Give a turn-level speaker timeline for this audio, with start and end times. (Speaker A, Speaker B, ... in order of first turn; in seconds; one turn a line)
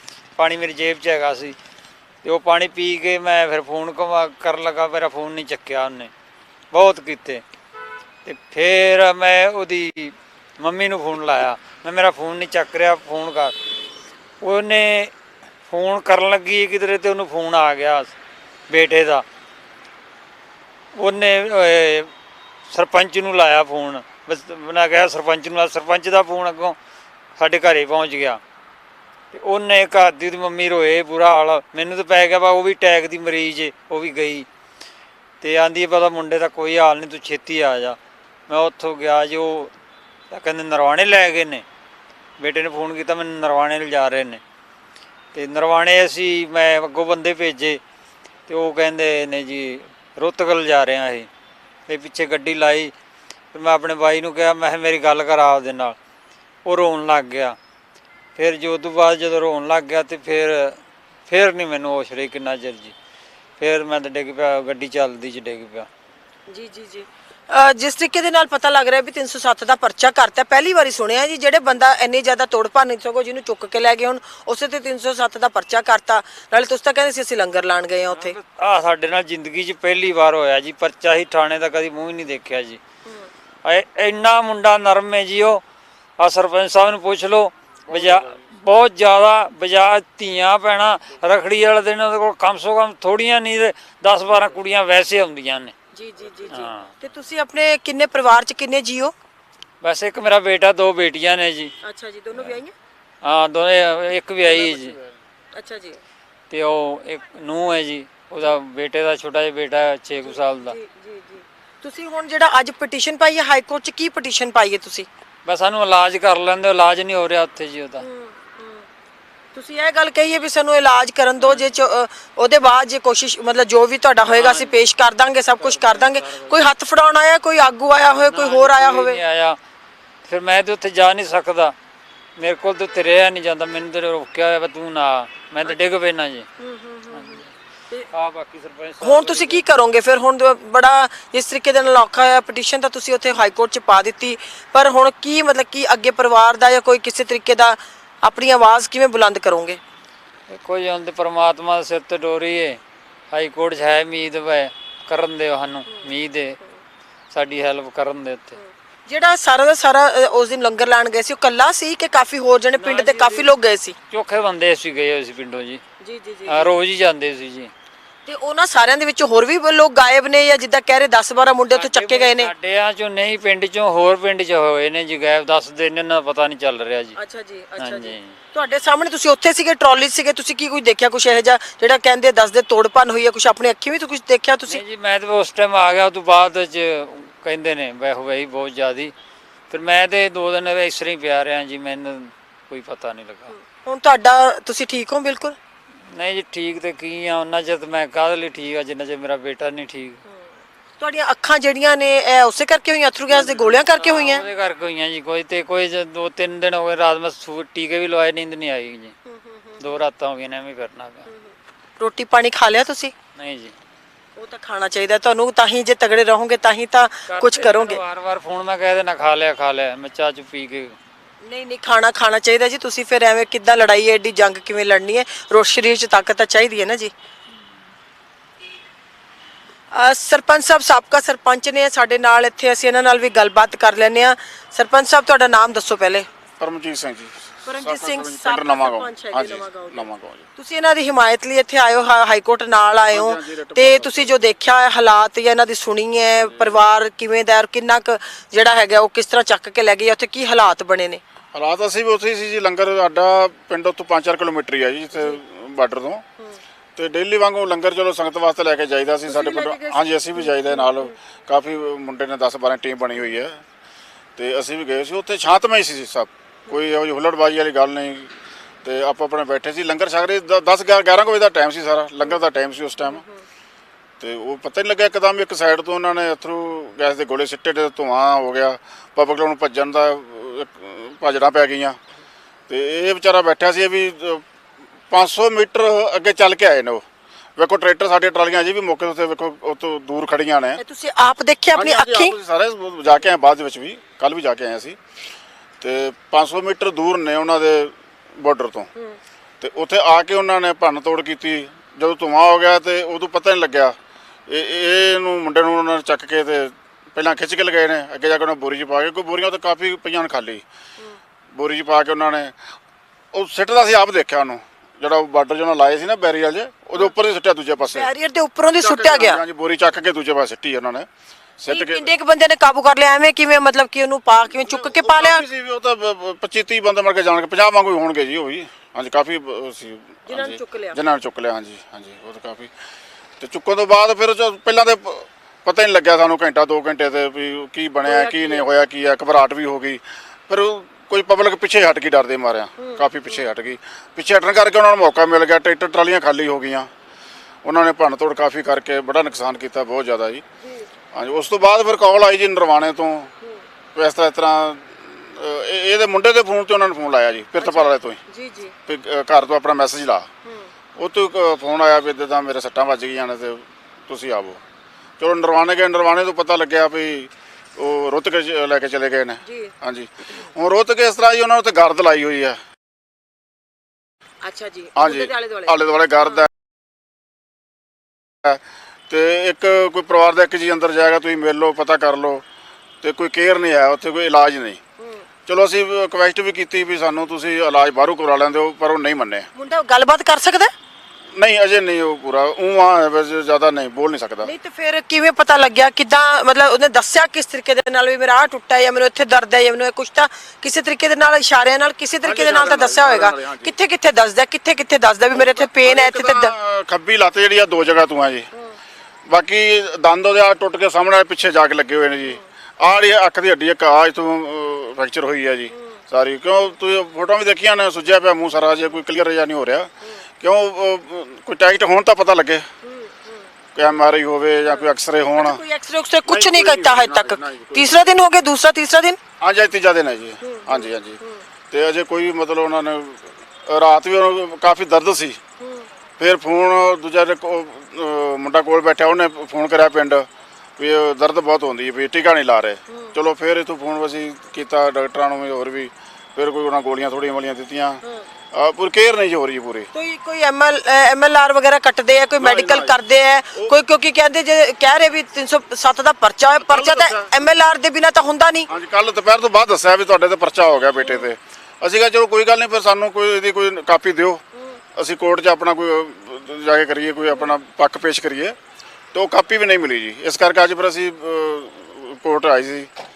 Speaker A: 0.4-1.6
Speaker A: 2.2-6.1
Speaker A: 6.7-7.4
Speaker A: 8.2-13.6
Speaker A: 14.4-15.1
Speaker A: 15.7-18.1
Speaker A: 18.7-19.2
Speaker A: 20.9-22.1
Speaker A: 22.7-26.8
Speaker A: 27.4-28.4
Speaker A: 29.3-34.5
Speaker A: 35.4-39.7
Speaker A: 40.3-41.6
Speaker A: 42.4-44.4
Speaker A: 45.3-47.8
Speaker A: 48.5-51.3
Speaker A: 51.9-52.9
Speaker A: 53.5-56.0
Speaker A: 56.6-57.6
Speaker A: 58.4-63.0
Speaker A: 63.6-65.9
Speaker B: 66.5-78.4
Speaker A: 78.2-82.8
Speaker A: 83.7-85.6
Speaker A: 86.2-95.7
Speaker B: 95.9-99.1
Speaker A: 96.5-96.9
Speaker A: 99.8-101.7
Speaker B: 101.8-102.7
Speaker A: 103.2-105.0
Speaker C: 104.6-104.9
Speaker B: 105.5-106.0
Speaker A: 106.5-110.8
Speaker B: 110.2-115.1
Speaker A: 115.5-118.1
Speaker B: 118.0-118.9
Speaker B: 119.5-129.2
Speaker A: 124.3-124.8
Speaker A: 125.6-126.6
Speaker A: 128.3-129.6
Speaker A: 130.2-131.8
Speaker A: 132.4-136.5
Speaker B: 136.6-138.0
Speaker A: 137.1-137.5
Speaker A: 138.1-139.6
Speaker B: 139.0-149.8
Speaker A: 150.5-152.8
Speaker A: 153.3-156.6
Speaker A: 157.3-158.6
Speaker B: 158.6-163.9
Speaker A: 162.8-163.5
Speaker A: 164.1-165.8
Speaker B: 166.0-166.7
Speaker A: 166.5-167.7
Speaker B: 168.3-172.5
Speaker A: 171.7-177.2
Speaker B: 177.2-184.8
Speaker A: 177.8-178.3
Speaker A: 184.7-189.1
Speaker A: 189.7-193.5
Speaker B: 193.5-195.6
Speaker A: 196.1-200.2
Speaker B: 200.3-204.5
Speaker A: 203.3-209.1
Speaker B: 209.3-209.8
Speaker A: 209.8-211.3
Speaker B: 211.3-213.1
Speaker A: 213.4-213.7
Speaker B: 214.4-218.0
Speaker A: 217.3-221.0
Speaker B: 221.4-227.1
Speaker B: 229.9-236.3
Speaker C: 236.6-240.4
Speaker B: 237.7-251.2
Speaker C: 243.1-244.4
Speaker C: 246.3-246.8
Speaker C: 251.5-256.2
Speaker C: 257.0-263.6
Speaker B: 259.3-261.1
Speaker C: 264.4-268.3
Speaker C: 268.8-273.2
Speaker B: 273.0-273.4
Speaker C: 274.2-282.0
Speaker C: 282.7-284.4
Speaker C: 285.1-287.0
Speaker C: 287.6-290.8
Speaker B: 290.8-292.4
Speaker C: 291.8-295.0
Speaker C: 295.8-298.9
Speaker C: 299.6-304.0
Speaker C: 304.5-310.6
Speaker C: 311.5-312.5
Speaker C: 313.3-318.1
Speaker B: 317.9-319.4
Speaker C: 318.8-321.1
Speaker C: 321.6-322.1
Speaker B: 321.7-325.4
Speaker C: 324.6-332.7
Speaker B: 330.3-331.0
Speaker C: 333.4-346.9
Speaker B: 338.1-338.6
Speaker B: 342.8-343.4
Speaker C: 347.6-350.4
Speaker B: 350.6-350.9
Speaker C: 351.1-353.3
Speaker C: 353.9-358.2
Speaker B: 357.6-358.7
Speaker C: 358.9-360.3
Speaker C: 361.0-364.6
Speaker C: 365.2-372.6
Speaker B: 369.4-369.7
Speaker B: 374.4-376.4
Speaker C: 375.0-376.5
Speaker C: 378.4-382.4
Speaker C: 383.0-384.8
Speaker B: 385.0-385.3
Speaker C: 385.5-389.5
Speaker B: 389.6-390.7
Speaker C: 391.4-394.5
Speaker B: 394.4-406.5
Speaker C: 402.2-403.7
Speaker C: 405.3-408.5
Speaker C: 409.3-419.9
Speaker B: 415.7-416.0
Speaker C: 420.4-422.6
Speaker B: 422.8-423.5
Speaker C: 423.8-425.6
Speaker B: 424.6-429.2
Speaker C: 426.3-428.1
Speaker C: 429.4-431.2
Speaker B: 430.4-431.4
Speaker C: 431.7-435.4
Speaker B: 435.6-435.9
Speaker C: 436.2-440.3
Speaker C: 440.8-448.0
Speaker C: 448.5-449.9
Speaker B: 449.9-458.7
Speaker C: 452.4-453.0
Speaker C: 456.6-457.3
Speaker C: 458.7-464.4
Speaker B: 461.0-461.3
Speaker C: 465.0-468.6
Speaker C: 469.1-472.9